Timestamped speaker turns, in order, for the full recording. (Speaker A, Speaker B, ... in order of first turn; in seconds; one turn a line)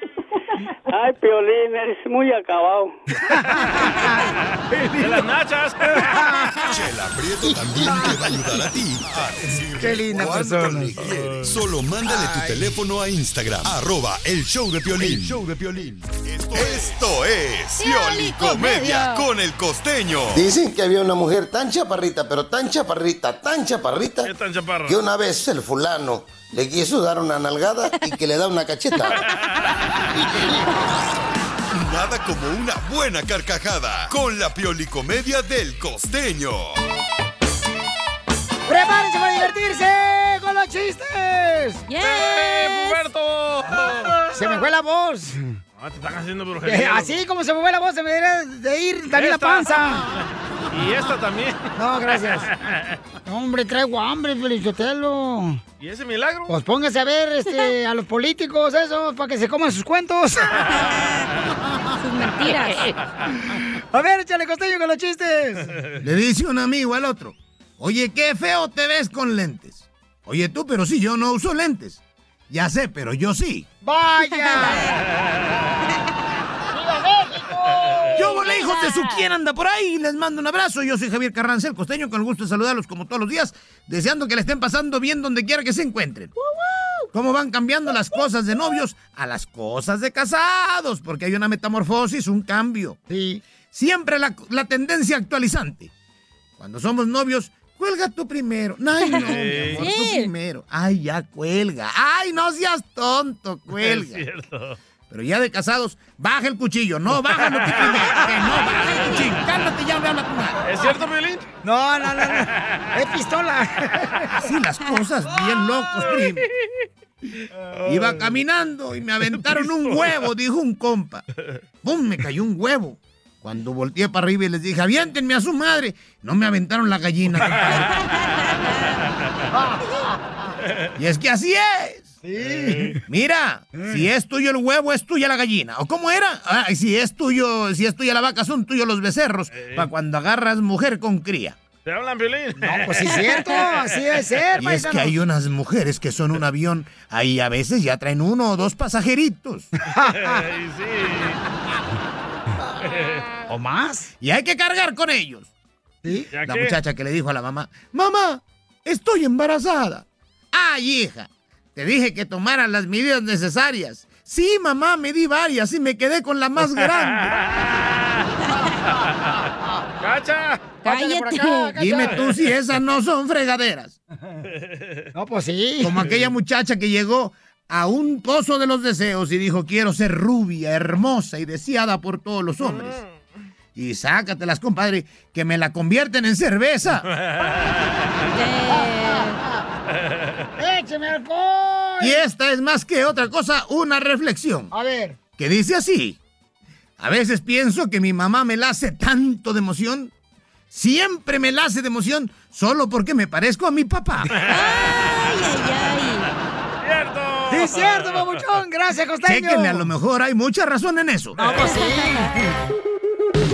Speaker A: 0.9-2.9
Speaker B: 3.1-5.3
Speaker C: 3.7-4.1
Speaker C: 5.0-6.6
Speaker B: 5.9-6.8
Speaker D: 6.7-20.5
Speaker B: 7.4-8.6
Speaker B: 9.8-11.1
Speaker C: 11.0-11.5
Speaker B: 12.1-12.7
Speaker E: 17.8-19.2
Speaker F: 20.3-24.3
Speaker C: 24.2-25.0
Speaker F: 24.9-29.2
Speaker D: 31.7-36.8
Speaker B: 38.7-41.8
Speaker E: 41.9-43.1
Speaker C: 42.0-44.2
Speaker B: 44.3-45.5
Speaker C: 45.8-47.2
Speaker B: 46.6-50.0
Speaker C: 49.1-53.0
Speaker B: 51.8-52.5
Speaker B: 53.2-55.6
Speaker C: 55.8-56.5
Speaker B: 56.5-60.8
Speaker E: 62.0-62.9
Speaker B: 63.5-65.8
Speaker G: 66.0-73.7
Speaker B: 73.8-74.9
Speaker E: 74.3-74.9
Speaker B: 76.7-78.4
Speaker G: 78.2-86.3
Speaker E: 78.3-79.2
Speaker G: 87.1-93.0
Speaker B: 93.1-93.4
Speaker G: 93.7-95.9
Speaker G: 96.6-104.2
Speaker E: 99.0-100.3
Speaker C: 99.2-99.9
Speaker C: 103.7-104.8
Speaker G: 105.1-110.6
Speaker C: 107.3-109.3
Speaker C: 110.6-111.5
Speaker B: 111.6-114.3
Speaker C: 112.2-112.9
Speaker G: 114.4-116.4
Speaker C: 116.0-116.3
Speaker C: 117.6-118.4
Speaker G: 117.8-121.2
Speaker C: 119.2-120.2
Speaker G: 121.8-127.8
Speaker C: 127.4-128.0
Speaker B: 129.5-130.5
Speaker G: 131.0-132.1
Speaker B: 132.2-133.0
Speaker C: 132.4-132.9
Speaker G: 133.1-141.6
Speaker B: 133.8-134.0
Speaker C: 139.5-139.9
Speaker C: 141.8-144.4
Speaker B: 142.6-145.2
Speaker G: 144.6-149.7
Speaker B: 149.9-150.4
Speaker C: 150.1-151.4
Speaker C: 152.8-153.3
Speaker B: 153.5-154.1
Speaker G: 154.2-155.5
Speaker B: 156.0-156.3
Speaker C: 156.3-156.8
Speaker G: 156.4-167.3
Speaker C: 166.7-168.2
Speaker C: 170.0-170.6
Speaker E: 170.8-171.8
Speaker B: 170.8-172.2
Speaker G: 171.8-174.0
Speaker C: 174.6-175.1
Speaker B: 175.1-176.0
Speaker G: 175.8-183.0
Speaker C: 182.6-183.1
Speaker G: 183.7-187.1
Speaker C: 187.1-188.0
Speaker E: 188.3-189.4
Speaker B: 188.7-189.6
Speaker C: 190.1-190.5
Speaker B: 190.6-192.2
Speaker G: 192.0-194.7
Speaker B: 194.7-195.2
Speaker G: 195.4-196.2
Speaker G: 197.0-200.1
Speaker G: 200.7-204.4
Speaker C: 204.3-205.2
Speaker E: 204.5-206.3
Speaker C: 206.8-208.4
Speaker B: 207.5-209.8
Speaker G: 209.2-211.4
Speaker B: 211.4-212.5
Speaker C: 211.4-211.8
Speaker E: 211.7-212.2